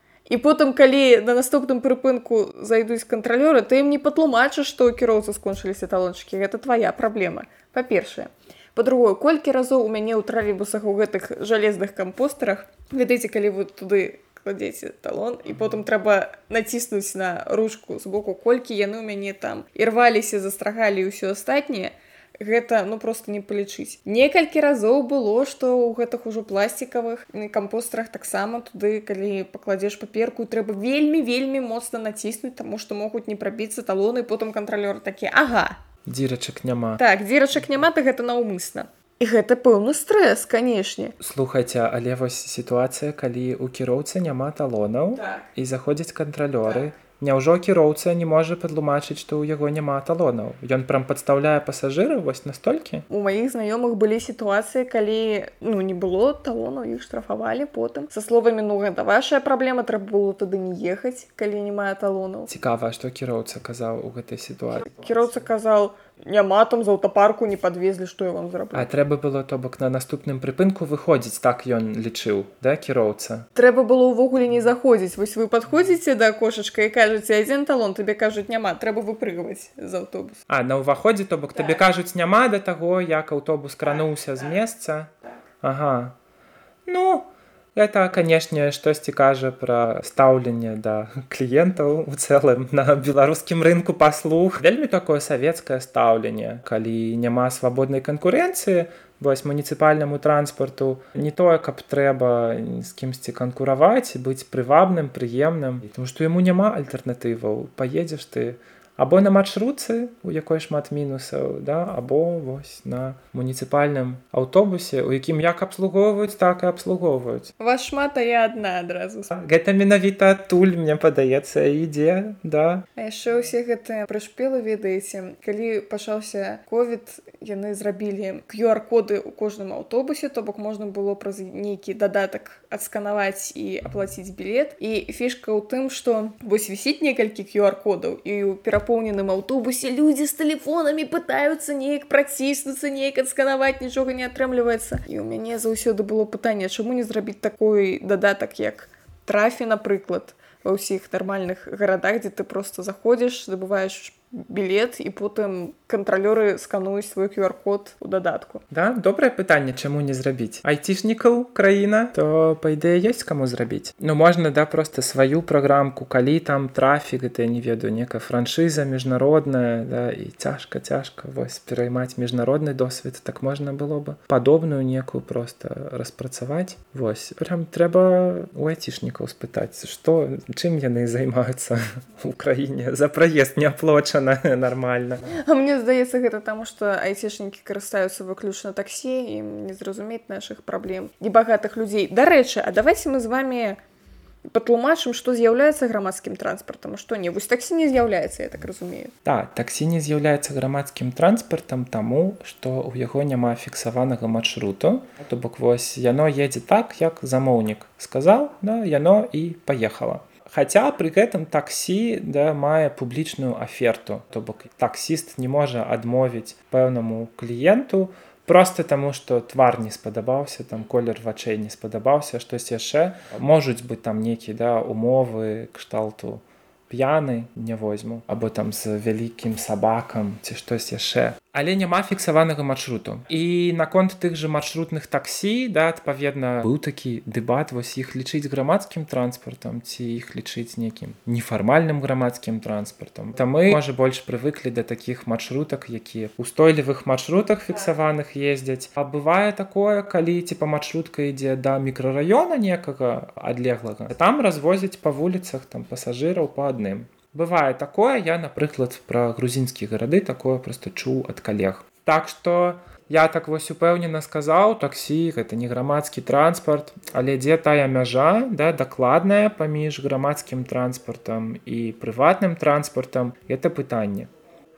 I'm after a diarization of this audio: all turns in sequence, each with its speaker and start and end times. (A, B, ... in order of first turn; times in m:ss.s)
0:00.3-0:35.8 A
0:36.0-0:37.0 B
0:37.0-0:41.2 A
0:41.2-0:53.0 B
0:45.2-0:45.4 A
0:53.1-1:02.5 A
1:02.5-1:05.4 B
1:04.8-1:08.9 A
1:08.7-1:13.5 B
1:13.6-1:20.4 A
1:20.5-1:26.2 B
1:26.9-1:57.5 B
1:57.6-1:59.3 A
1:59.3-2:02.9 B
2:03.0-2:38.6 A
2:38.7-3:05.2 B
3:05.3-3:13.8 A
3:14.5-3:19.1 A
3:19.2-4:34.3 B